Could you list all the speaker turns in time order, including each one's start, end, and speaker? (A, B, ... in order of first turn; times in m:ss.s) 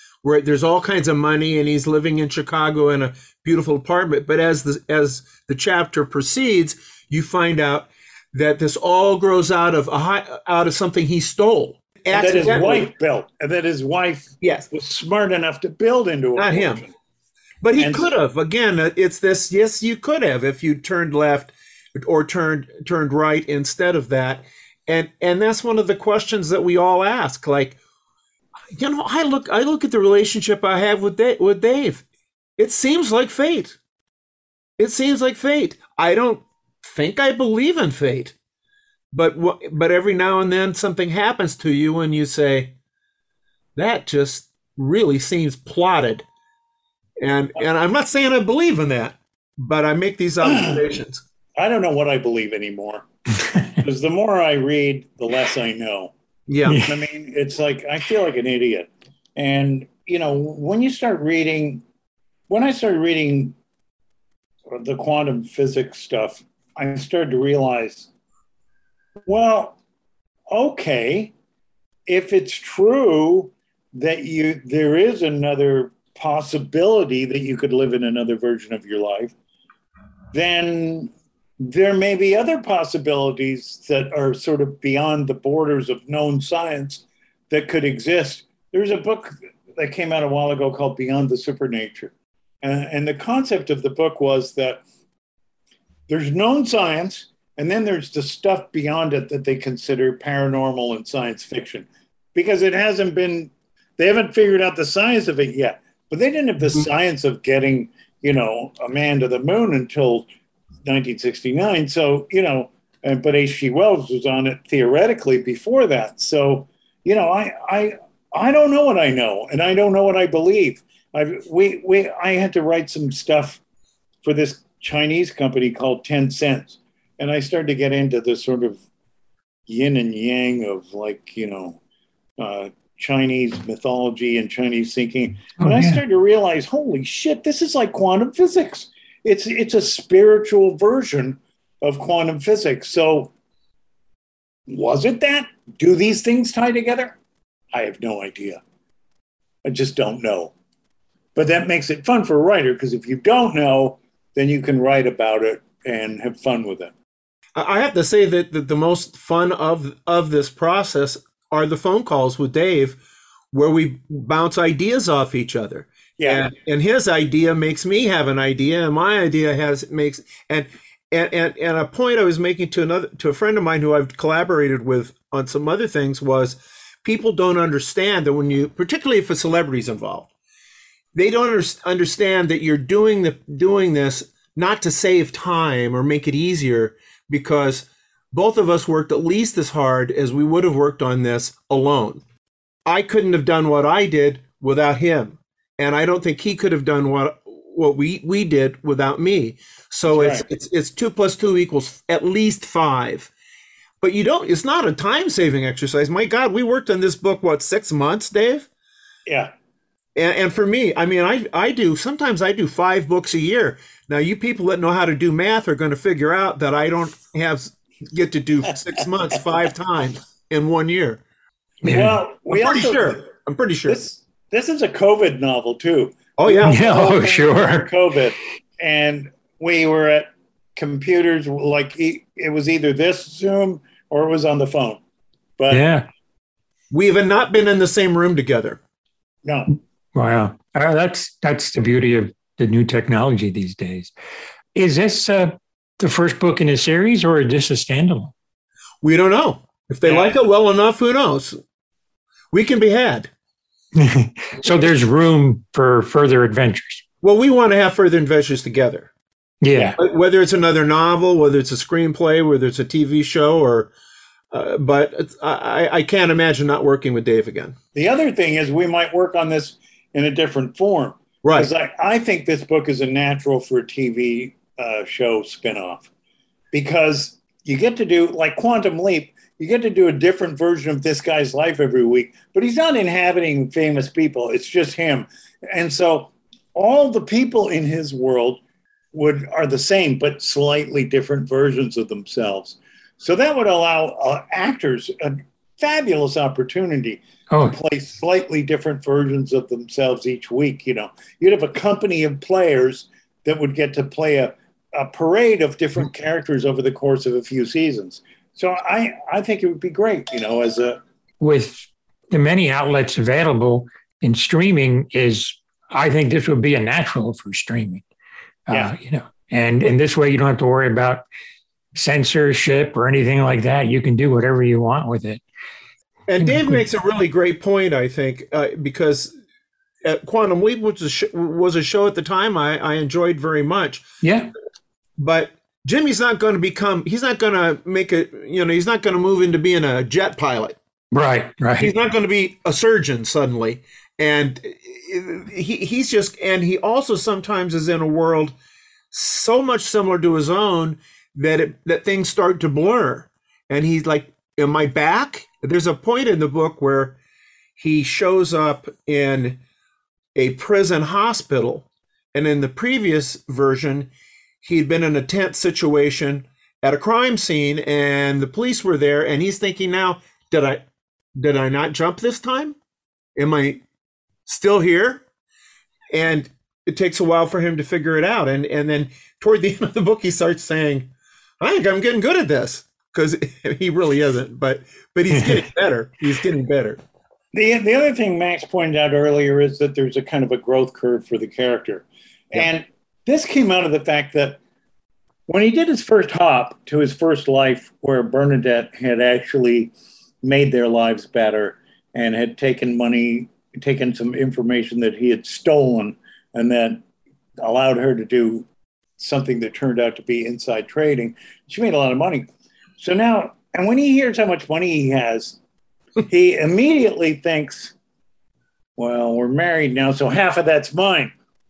0:00.2-0:12.9 A
0:12.1-0:16.9 B
0:14.4-0:14.7 A
0:16.4-0:16.8 A
0:17.6-0:27.8 A
0:17.8-0:18.1 B
0:28.7-0:32.0 A
0:32.6-0:33.8 A
0:34.8-0:38.3 A
0:39.1-0:42.7 A
0:43.8-0:46.2 A
0:47.2-0:51.2 A
0:50.4-0:50.8 B
0:51.6-0:53.0 B
0:53.8-0:56.1 B
0:56.5-0:56.8 A
0:56.7-0:56.9 C
0:56.8-1:01.8 B
1:02.5-1:03.6 B
1:04.7-1:08.1 B
1:09.3-1:09.8 B
1:10.5-1:11.3 B
1:12.1-1:19.3 B
1:20.3-1:34.8 B
1:36.1-1:50.3 B
1:50.8-2:03.6 B
2:04.2-2:08.8 B
2:09.7-2:11.8 B
2:12.4-2:23.3 B
2:15.6-2:16.0 C
2:24.7-2:27.2 B
2:27.7-2:28.6 B
2:29.6-2:30.5 B
2:31.4-2:36.9 B
2:37.6-2:43.0 A
2:43.5-3:00.3 A
2:46.2-2:46.4 B
3:01.2-3:12.2 A
3:12.9-3:23.3 A
3:20.1-3:20.4 B
3:24.0-3:28.7 A
3:29.3-3:29.5 B
3:30.2-3:41.2 A
3:41.8-3:42.2 C
3:41.8-3:43.2 B
3:42.5-3:44.0 A
3:43.9-3:55.0 B
3:46.4-3:47.0 A
3:46.6-3:47.9 C
3:55.6-3:55.8 B
3:55.7-3:56.1 C
3:56.9-3:58.8 A
3:59.4-3:59.7 B
4:00.2-4:04.1 C
4:04.7-4:08.3 C
4:09.0-4:11.6 A
4:10.0-4:10.4 B
4:12.5-4:13.3 A
4:14.0-4:17.0 C
4:17.2-4:19.1 A
4:19.6-4:20.0 C
4:20.0-4:23.9 A
4:24.5-4:27.8 A
4:27.9-4:36.1 B
4:31.4-4:31.7 A
4:36.7-4:48.6 B
4:49.1-5:11.0 B
4:57.5-4:57.8 C
5:11.4-5:18.0 C
5:18.7-5:21.2 C
5:22.0-5:25.4 C
5:26.3-5:29.3 A
5:26.4-5:26.8 C
5:30.0-5:34.1 A
5:34.2-5:34.5 C
5:35.2-5:40.8 A
5:41.1-5:41.9 C
5:41.8-5:48.5 A
5:49.1-5:57.2 A
5:57.8-5:59.6 A
6:00.4-6:04.1 A
6:04.6-6:10.8 A
6:11.4-6:12.8 A
6:13.4-6:13.8 A
6:14.5-6:15.2 A
6:16.1-6:21.1 A
6:21.6-6:27.0 A
6:27.5-6:34.6 B
6:35.5-6:47.0 B
6:47.6-6:48.7 B
6:49.2-6:55.6 B
6:56.3-6:57.9 B
6:59.0-7:01.3 B